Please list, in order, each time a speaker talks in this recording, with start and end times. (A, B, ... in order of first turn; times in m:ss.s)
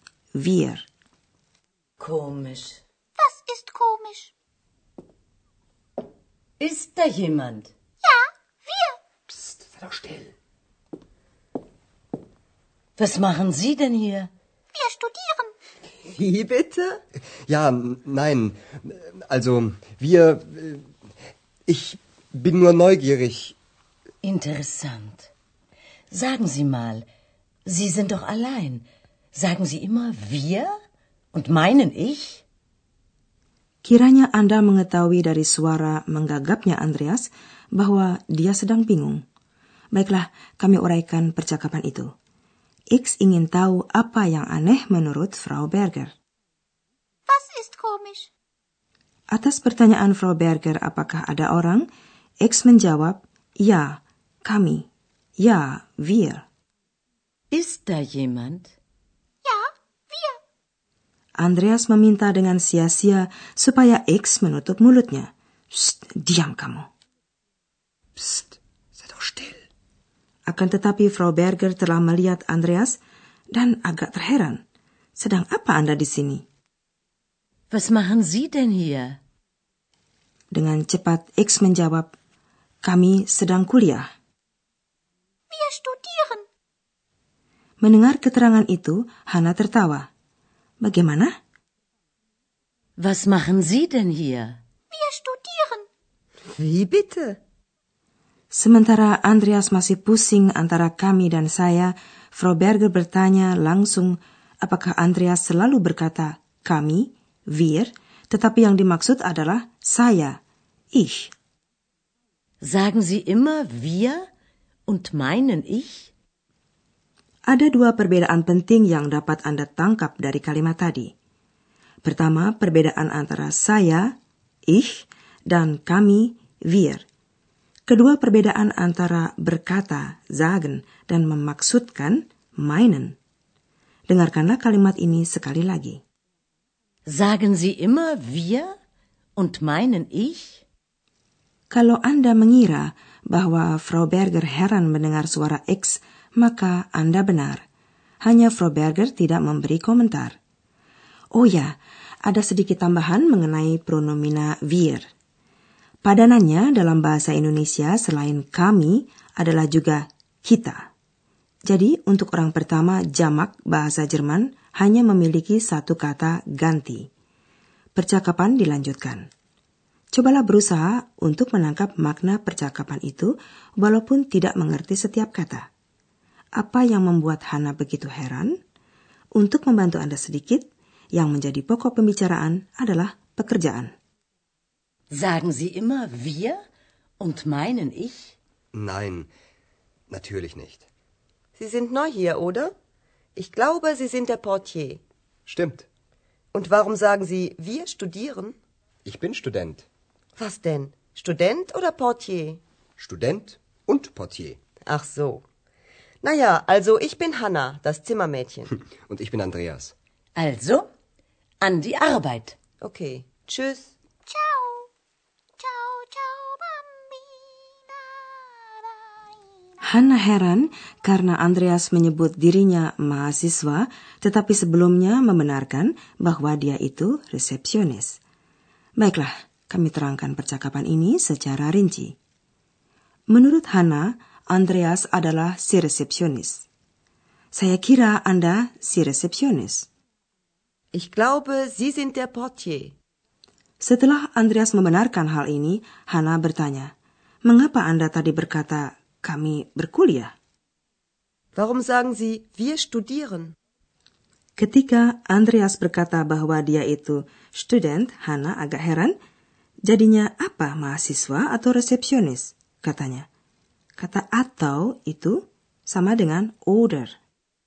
0:00.4-0:00.9 A
0:02.0-0:02.8 B
0:03.2-0:04.3 C
0:06.6-0:07.7 B
0:08.0-0:09.0 C
0:13.0-0:14.3 B
0:14.7-0:15.5 C
0:16.1-0:17.0 D
0:17.5-0:20.9 E
0:21.7-0:23.6 E
0:24.2-0:25.3 B
0:26.1-0:27.0 B
0:27.7-0:30.7 B
0:31.3-0:32.4 B
0:33.8-0:39.2 A
0:39.9-0:42.1 A
0:42.9-0:46.1 A
0:47.3-0:48.3 C
0:49.3-0:51.9 A
0:52.4-0:54.9 A
0:55.4-0:56.4 A
0:57.5-0:58.7 B
0:59.4-1:00.4 C
1:01.4-1:06.9 A
1:08.2-1:09.6 E
1:10.5-1:13.0 A
1:13.5-1:14.6 A
1:15.2-1:16.4 A
1:17.7-1:19.2 B
1:20.5-1:22.1 A
1:22.8-1:24.1 A
1:25.5-1:26.4 C
1:27.8-1:30.1 A
1:30.8-1:31.3 A
1:33.0-1:34.6 B
1:34.9-1:35.9 C
1:36.5-1:37.4 D
1:38.5-1:50.4 A
1:50.9-1:51.3 A
1:52.6-1:54.2 B
1:54.9-1:56.1 B
1:57.5-2:01.1 A
2:02.0-2:04.1 A
2:04.7-2:07.0 A
2:07.9-2:13.2 A
2:14.1-2:16.0 A
2:17.1-2:18.7 B
2:19.4-2:20.6 B
2:21.7-2:27.6 A
2:28.2-2:30.4 A
2:31.3-2:35.0 A
2:36.0-2:40.9 A
2:41.7-2:47.1 A
2:48.0-2:49.3 A
2:50.1-2:55.7 A
2:56.6-2:58.6 A
2:59.4-3:03.9 A
3:05.1-3:06.6 B
3:07.2-3:08.4 B
3:08.7-3:09.3 E
3:10.1-3:10.8 E
3:11.6-3:12.7 D
3:13.4-3:15.0 D
3:15.5-3:15.9 E
3:16.5-3:18.6 D
3:19.0-3:19.9 E
3:20.4-3:22.6 D
3:23.0-3:24.6 E
3:24.9-3:25.4 D
3:26.2-3:28.7 D
3:28.9-3:29.9 E
3:30.4-3:30.9 B
3:31.6-3:32.6 B
3:32.8-3:33.9 D
3:34.3-3:34.9 C
3:35.6-3:38.9 C
3:39.9-3:48.2 A
3:49.0-3:52.2 A
3:53.3-3:56.6 A
3:57.5-3:59.9 A
4:00.9-4:03.0 D
4:03.8-4:06.9 A
4:07.4-4:10.3 A
4:11.5-4:13.5 D
4:14.6-4:19.1 A
4:19.9-4:23.3 A
4:24.0-4:27.2 A